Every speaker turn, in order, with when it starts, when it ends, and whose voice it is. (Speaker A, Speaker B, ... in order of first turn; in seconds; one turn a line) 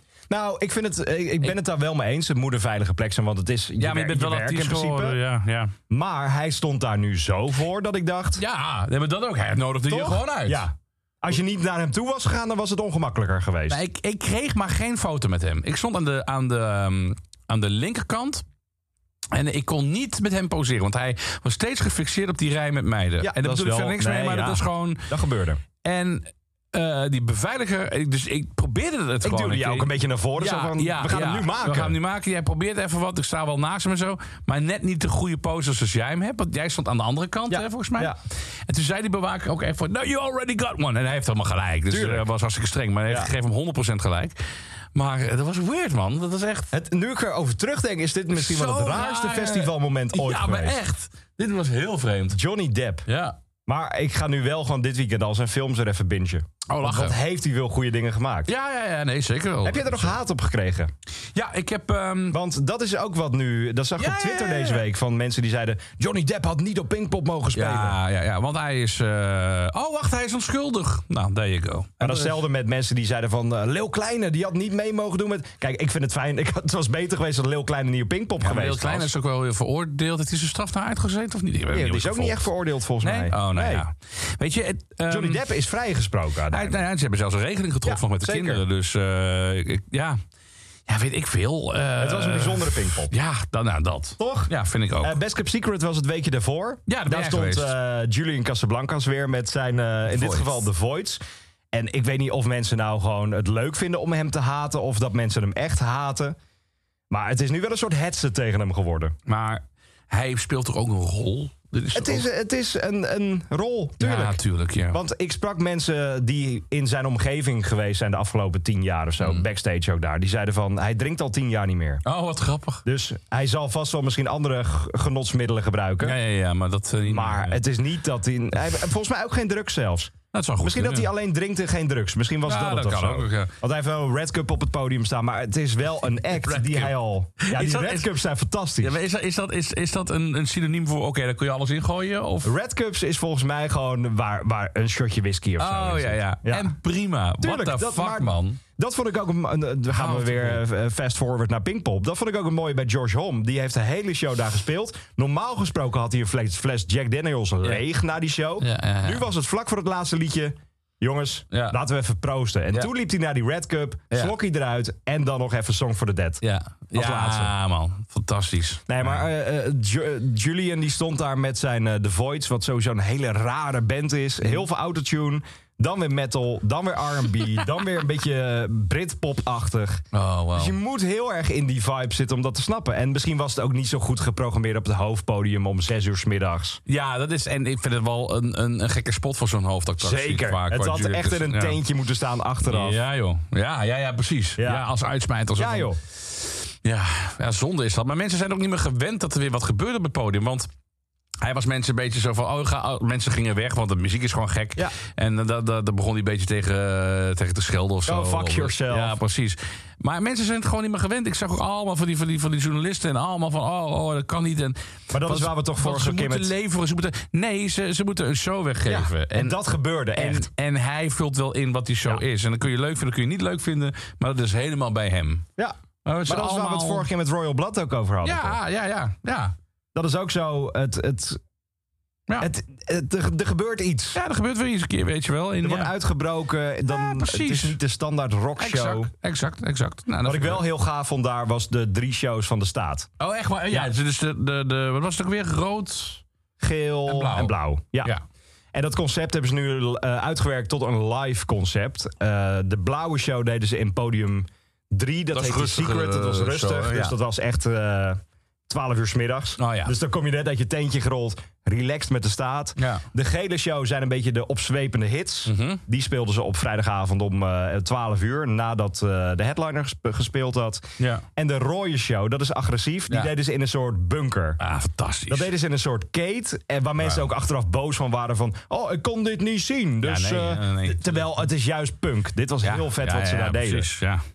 Speaker A: 0.3-5.2
Speaker B: 3.8-5.7
Speaker A: 5.9-8.4
Speaker B: 8.4-10.7
Speaker A: 9.9-13.8
Speaker B: 13.7-18.4
Speaker B: 19.3-25.1
Speaker A: 23.2-25.6
Speaker B: 25.8-44.4
Speaker A: 29.2-32.0
Speaker A: 37.5-38.2
Speaker A: 41.9-42.2
Speaker B: 44.9-46.7
Speaker A: 46.7-50.8
Speaker B: 48.3-52.4
Speaker A: 52.3-53.1
Speaker B: 53.1-53.4
Speaker A: 53.7-58.5
Speaker B: 56.7-57.2
Speaker B: 58.5-60.2
Speaker A: 59.6-60.9
Speaker B: 61.3-62.4
Speaker A: 62.3-68.0
Speaker B: 64.0-64.9
Speaker B: 67.5-72.4
Speaker A: 72.0-79.1
Speaker B: 78.4-82.5
Speaker A: 81.7-83.8
Speaker B: 83.0-85.4
Speaker A: 85.1-86.8
Speaker B: 86.5-90.2
Speaker A: 87.8-88.6
Speaker B: 90.9-95.2
Speaker A: 92.0-93.1
Speaker A: 94.2-101.2
Speaker B: 96.9-97.8
Speaker B: 100.1-100.6
Speaker A: 101.7-106.4
Speaker A: 107.1-109.1
Speaker B: 109.3-112.3
Speaker A: 111.9-114.4
Speaker B: 114.0-115.0
Speaker A: 114.9-122.0
Speaker B: 122.0-122.8
Speaker A: 122.8-126.2
Speaker B: 126.0-127.6
Speaker A: 127.1-139.0
Speaker B: 130.3-131.1
Speaker B: 132.5-133.5
Speaker B: 136.3-138.1
Speaker B: 138.8-142.5
Speaker A: 142.4-146.8
Speaker B: 145.6-148.6
Speaker A: 147.4-166.4
Speaker B: 149.9-150.6
Speaker B: 158.6-159.3
Speaker B: 161.5-161.8
Speaker B: 166.4-169.2
Speaker A: 166.9-167.5
Speaker A: 168.9-180.0
Speaker B: 180.1-180.8
Speaker A: 180.6-186.8
Speaker B: 186.9-191.8
Speaker A: 190.0-193.0
Speaker B: 192.7-200.7
Speaker A: 194.6-194.9
Speaker A: 195.6-196.0
Speaker B: 201.4-219.6
Speaker A: 208.1-209.2
Speaker A: 215.1-216.5
Speaker A: 218.9-220.5
Speaker B: 220.2-225.5
Speaker B: 226.1-227.1
Speaker A: 226.3-228.6
Speaker B: 228.2-229.6
Speaker A: 229.9-231.4
Speaker A: 232.4-234.2
Speaker B: 234.1-235.9
Speaker A: 235.6-239.1
Speaker B: 236.9-237.8
Speaker B: 238.6-240.7
Speaker A: 240.2-243.1
Speaker B: 243.2-246.2
Speaker A: 246.6-248.1
Speaker B: 247.1-248.2
Speaker A: 248.7-274.6
Speaker B: 255.3-257.1
Speaker B: 259.6-259.9
Speaker B: 262.8-263.1
Speaker B: 265.5-265.8
Speaker B: 271.0-271.2
Speaker B: 274.6-275.5
Speaker A: 275.3-283.9
Speaker B: 280.0-281.3
Speaker B: 282.6-284.2